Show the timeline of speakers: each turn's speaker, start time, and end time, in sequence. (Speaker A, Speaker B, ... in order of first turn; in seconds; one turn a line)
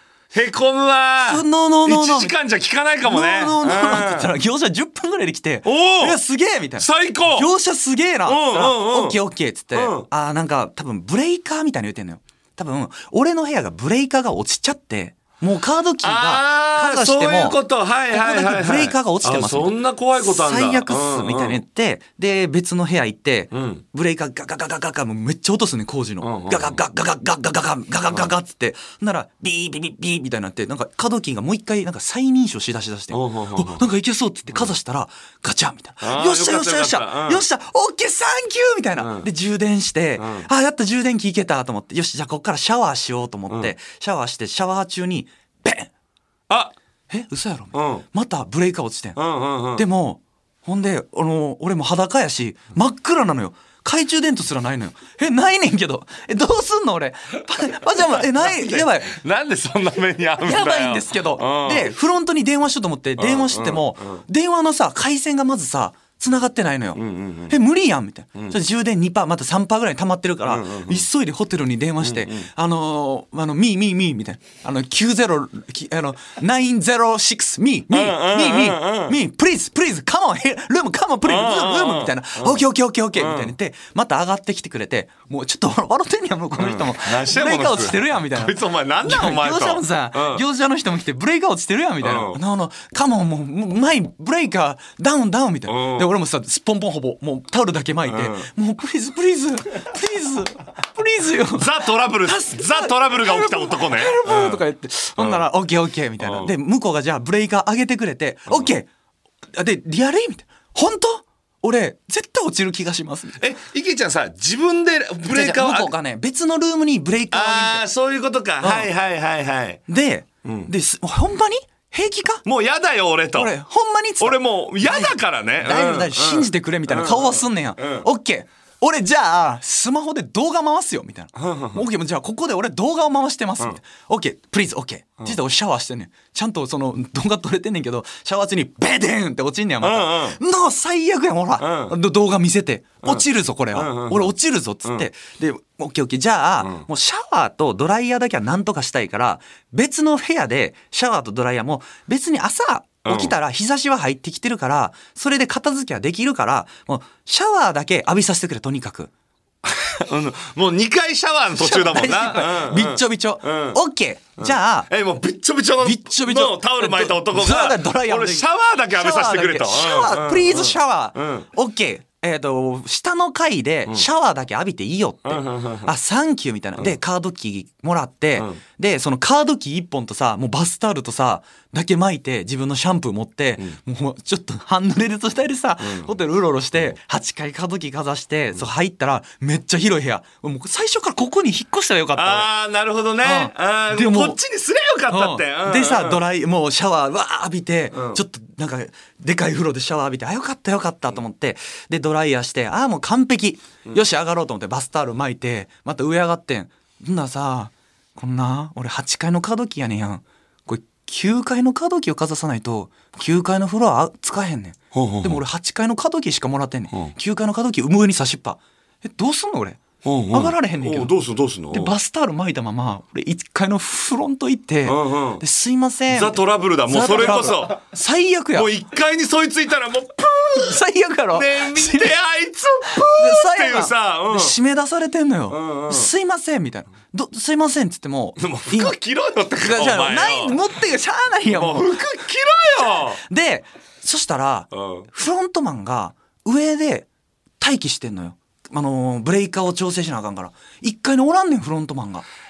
Speaker A: 0.3-4.3
Speaker B: 1.2-2.4
Speaker B: 3.0-17.6
Speaker A: 5.6-6.2
Speaker A: 6.8-7.5
Speaker A: 8.2-9.2
Speaker A: 9.7-10.1
Speaker A: 16.0-21.6
Speaker B: 18.1-45.9
Speaker A: 23.5-23.8
Speaker A: 26.2-26.8
Speaker A: 33.1-33.9
Speaker A: 36.0-37.4
Speaker A: 39.0-39.3
Speaker A: 40.2-40.5
Speaker A: 46.5-46.7
Speaker B: 47.1-49.2
Speaker A: 47.7-48.0
Speaker A: 49.1-49.9
Speaker B: 49.7-59.1
Speaker A: 58.3-61.9
Speaker B: 60.4-108.9
Speaker A: 63.2-64.2
Speaker A: 67.0-67.5
Speaker A: 70.5-71.0
Speaker A: 72.0-72.5
Speaker A: 77.9-79.2
Speaker A: 81.2-82.6
Speaker A: 83.1-83.5
Speaker A: 86.5-90.4
Speaker A: 92.0-92.4
Speaker A: 95.7-96.1
Speaker A: 98.0-98.5
Speaker A: 101.5-104.6
Speaker A: 105.2-105.5
Speaker A: 106.2-106.5
Speaker B: 109.5-113.4
Speaker A: 113.4-115.9
Speaker B: 115.2-117.8
Speaker A: 117.3-119.8
Speaker B: 118.6-118.9
Speaker B: 119.9-122.5
Speaker A: 120.5-120.7
Speaker A: 122.5-123.5
Speaker B: 123.3-159.1
Speaker A: 124.2-128.0
Speaker A: 131.3-131.8
Speaker A: 139.8-140.4
Speaker A: 141.6-141.9
Speaker A: 143.0-144.3
Speaker A: 153.0-153.4
Speaker A: 159.6-163.8
Speaker B: 161.6-164.9
Speaker A: 164.4-171.5
Speaker B: 165.8-192.5
Speaker A: 175.2-175.9
Speaker A: 185.8-186.1
Speaker A: 192.1-196.2
Speaker B: 193.2-194.4
Speaker B: 195.1-221.1
Speaker A: 197.9-198.2
Speaker A: 214.9-215.4
Speaker A: 220.0-221.9
Speaker B: 221.7-228.7
Speaker A: 224.9-225.4
Speaker A: 226.1-227.8
Speaker A: 228.5-230.8
Speaker B: 230.5-232.1
Speaker A: 231.3-234.6
Speaker B: 232.9-238.9
Speaker A: 235.5-236.1
Speaker A: 238.4-240.6
Speaker B: 239.6-242.2
Speaker A: 241.5-243.2
Speaker B: 242.8-247.1
Speaker A: 244.7-245.1
Speaker B: 247.6-252.2